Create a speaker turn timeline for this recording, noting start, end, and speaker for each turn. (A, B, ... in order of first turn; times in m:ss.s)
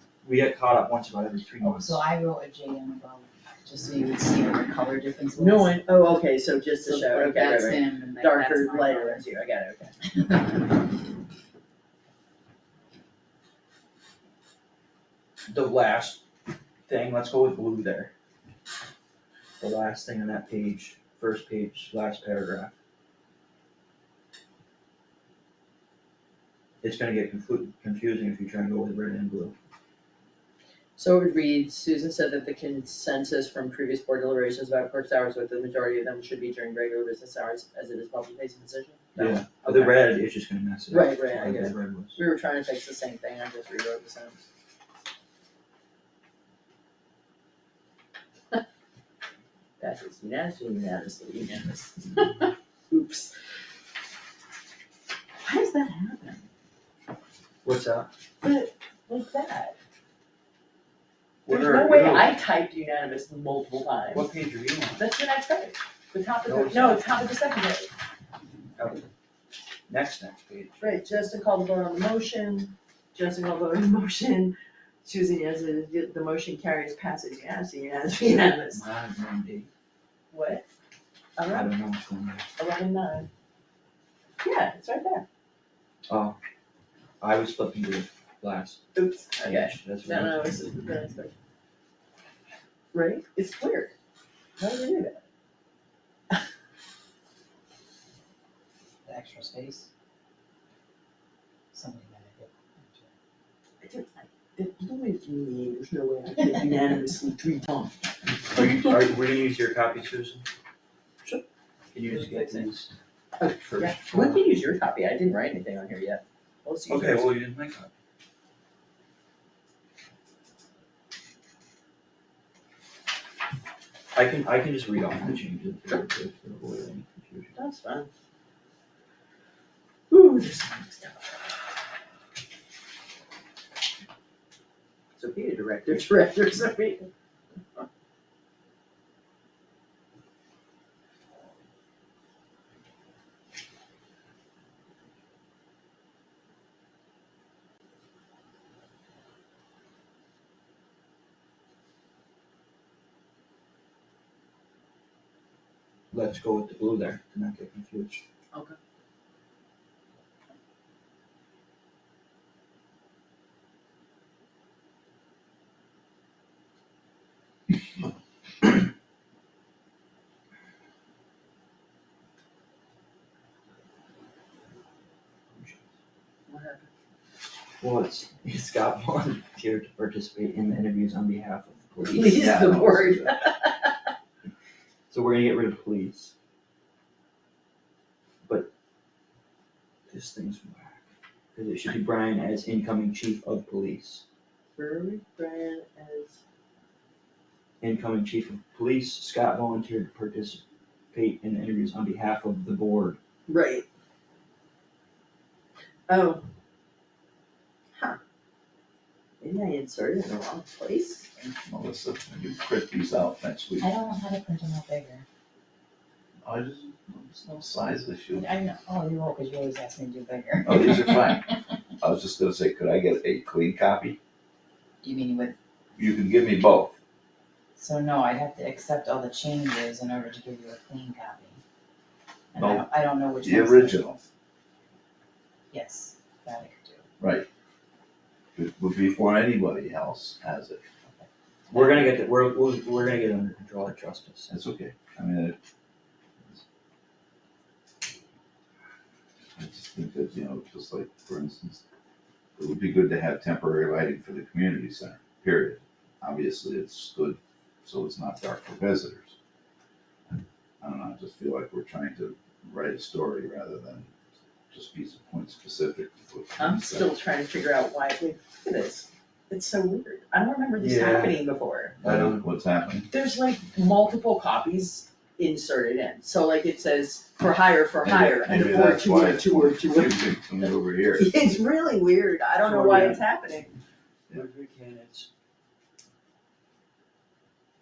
0:00.2-0:02.0 A
0:01.6-0:05.8 B
0:05.4-0:10.0 C
0:06.8-0:09.2 B
0:15.5-0:16.2 A
0:16.9-0:18.1 A
0:19.6-0:22.7 A
0:26.8-0:29.5 A
0:31.0-0:40.1 C
0:39.2-0:42.2 A
0:40.9-0:44.4 C
0:49.8-0:53.3 C
0:55.4-0:56.4 C
0:57.6-0:58.1 A
0:58.4-0:59.8 C
1:01.4-1:02.4 A
1:01.5-1:04.3 C
1:04.1-1:05.0 A
1:04.9-1:07.9 C
1:06.5-1:07.1 A
1:08.8-1:09.0 A
1:09.9-1:10.8 A
1:10.8-1:18.8 C
1:18.7-1:19.7 A
1:20.3-1:20.6 C
1:21.4-1:21.7 C
1:21.5-1:22.4 A
1:22.6-1:23.3 C
1:24.4-1:25.2 C
1:26.1-1:26.4 A
1:27.2-1:28.8 A
1:28.9-1:31.3 C
1:29.4-1:30.8 A
1:32.9-1:33.9 C
1:34.6-1:35.2 C
1:39.0-1:39.9 B
1:41.7-1:43.1 B
1:43.8-1:48.0 C
1:48.5-1:50.4 A
1:51.9-1:52.9 A
1:52.1-1:52.7 C
1:53.4-1:57.3 C
1:53.6-1:54.4 A
1:56.9-1:57.9 A
2:04.1-2:07.5 A
2:07.5-2:08.1 C
2:10.1-2:11.6 C
2:15.2-2:17.1 C
2:36.1-2:38.2 A
2:38.5-2:38.8 C
2:55.5-2:55.8 A
2:56.5-2:56.9 C
2:57.8-3:02.4 A
3:02.0-3:03.9 C
3:02.4-3:03.4 D
3:05.1-3:06.3 A
3:08.4-3:08.7 A
3:10.1-3:11.0 A
3:11.5-3:14.2 A
3:14.8-3:16.4 C
3:17.8-3:20.6 A
3:21.1-3:23.2 A
3:23.5-3:23.8 C
3:26.1-3:26.4 C
3:29.4-3:31.3 C
3:31.4-3:33.9 D
3:33.8-3:35.2 B
3:36.4-3:38.5 D
3:38.3-3:41.4 B
3:40.6-3:44.2 D
3:45.0-3:45.6 B
3:46.0-3:47.0 D
3:47.8-3:51.6 B
3:52.5-3:54.1 B
3:52.6-3:54.2 D
3:55.7-3:57.0 B
3:57.2-3:57.5 D
3:58.5-4:00.8 D
4:01.2-4:02.0 B
4:01.7-4:04.6 A
4:04.5-4:05.6 D
4:09.6-4:11.8 D
4:12.6-4:19.4 D
4:20.3-4:24.1 D
4:24.7-4:27.1 D
4:26.6-4:32.0 C
4:30.8-4:31.4 A
4:32.0-4:32.4 A
4:32.0-4:33.1 D
4:33.1-4:40.3 C
4:38.0-4:41.3 D
4:41.1-4:43.7 C
4:42.6-4:43.2 A
4:44.3-4:45.3 A